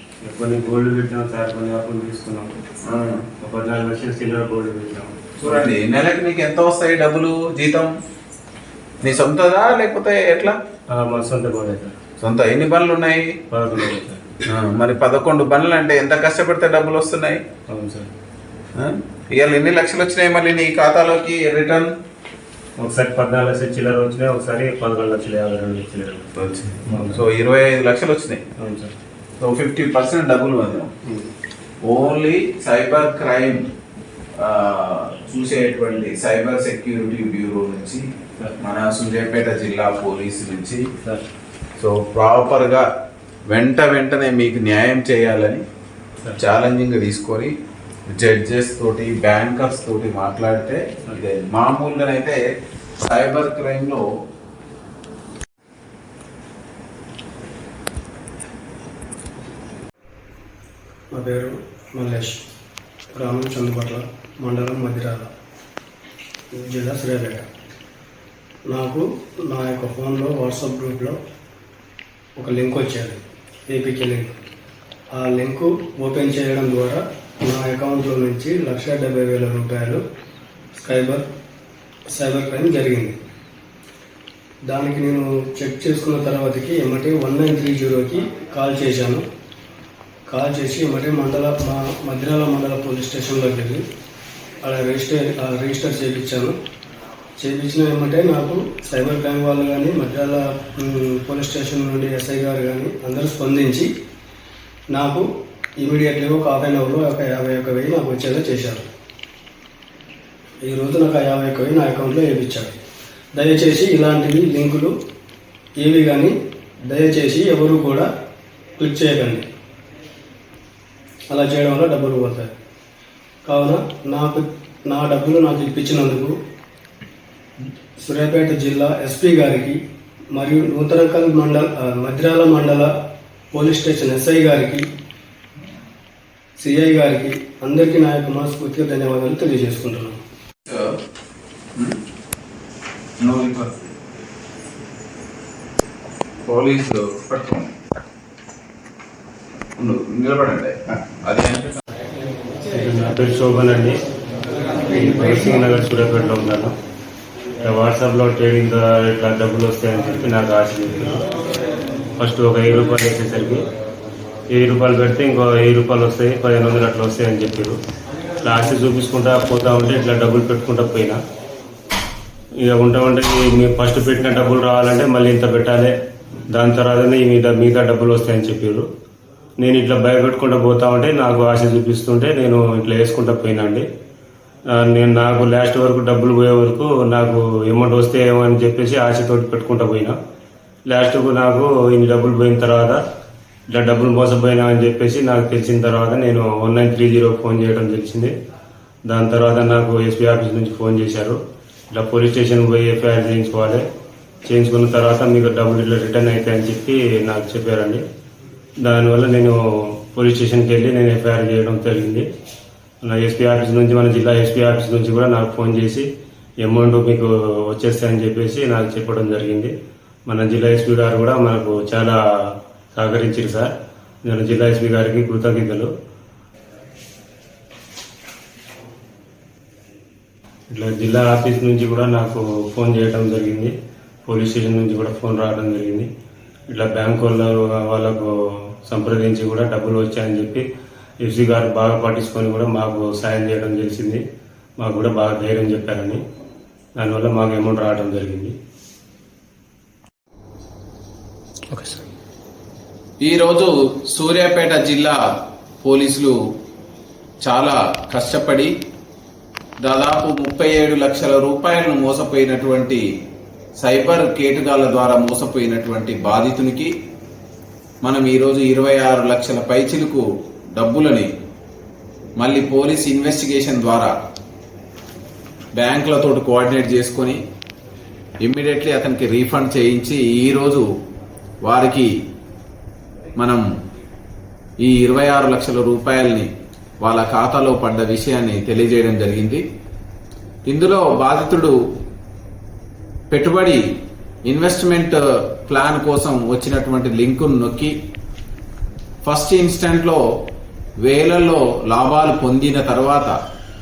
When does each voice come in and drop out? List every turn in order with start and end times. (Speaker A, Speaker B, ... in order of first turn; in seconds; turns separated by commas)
Speaker A: 0.2-2.5, Speaker B: 2.9-3.2, Speaker A: 3.4-5.5, Speaker B: 5.4-7.9, Speaker B: 9.0-10.6, Speaker A: 10.9-11.9, Speaker B: 12.2-13.3, Speaker A: 13.5-14.2, Speaker B: 14.4-17.4, Speaker A: 17.7-18.1, Speaker B: 18.8-21.9, Speaker A: 22.8-26.3, Speaker B: 26.4-28.4, Speaker A: 26.8-27.2, Speaker A: 28.6-28.9, Speaker B: 29.4-30.9, Speaker B: 31.8-33.6, Speaker B: 34.4-38.0, Speaker B: 38.6-40.9, Speaker B: 41.8-42.9, Speaker B: 43.5-45.6, Speaker B: 46.4-47.5, Speaker B: 48.1-52.4, Speaker B: 53.0-54.0, Speaker C: 61.1-62.4, Speaker C: 63.1-65.3, Speaker C: 66.5-67.5, Speaker C: 68.7-71.2, Speaker C: 72.4-74.3, Speaker C: 75.1-80.0, Speaker C: 80.8-81.3, Speaker C: 82.1-83.2, Speaker C: 84.7-89.2, Speaker C: 90.3-93.8, Speaker C: 94.6-96.5, Speaker C: 97.4-103.9, Speaker C: 104.9-105.3, Speaker C: 105.8-108.9, Speaker C: 110.7-112.8, Speaker C: 113.3-114.9, Speaker C: 115.8-118.1, Speaker C: 118.8-119.5, Speaker C: 121.3-122.5, Speaker C: 123.5-126.4, Speaker C: 128.0-129.8, Speaker C: 130.3-132.9, Speaker C: 133.5-134.8, Speaker C: 136.6-140.2, Speaker B: 140.7-140.9, Speaker B: 143.2-143.9, Speaker B: 146.4-147.7, Speaker B: 149.8-151.7, Speaker A: 152.7-154.0, Speaker A: 154.9-156.7, Speaker A: 157.6-161.2, Speaker A: 162.2-163.6, Speaker A: 164.5-167.8, Speaker A: 168.4-171.2, Speaker A: 172.6-175.9, Speaker A: 176.5-178.8, Speaker A: 179.6-183.8, Speaker A: 184.8-190.1, Speaker A: 190.9-193.0, Speaker A: 193.7-198.3, Speaker A: 199.1-201.4, Speaker A: 201.9-203.8, Speaker A: 204.5-208.0, Speaker A: 208.8-212.2, Speaker A: 213.0-216.1, Speaker A: 216.6-219.7, Speaker A: 220.3-222.2, Speaker A: 222.9-223.7, Speaker A: 224.3-225.9, Speaker A: 230.7-233.7, Speaker A: 234.3-236.1, Speaker A: 236.7-238.3, Speaker A: 238.9-240.6, Speaker A: 241.2-244.2, Speaker A: 244.8-246.2, Speaker A: 247.0-248.5, Speaker C: 251.7-252.0, Speaker B: 253.2-255.2, Speaker B: 255.8-256.4, Speaker B: 257.4-258.7, Speaker B: 259.8-263.0, Speaker B: 263.8-266.9, Speaker B: 268.0-270.2, Speaker B: 270.7-271.3, Speaker B: 272.4-274.1, Speaker B: 275.7-277.4, Speaker B: 278.4-280.9, Speaker B: 281.6-282.1, Speaker B: 283.4-283.6, Speaker B: 284.8-286.5, Speaker B: 287.0-289.6, Speaker B: 290.6-291.7, Speaker B: 293.3-293.8, Speaker B: 294.4-297.9, Speaker B: 299.2-300.2, Speaker B: 301.0-303.3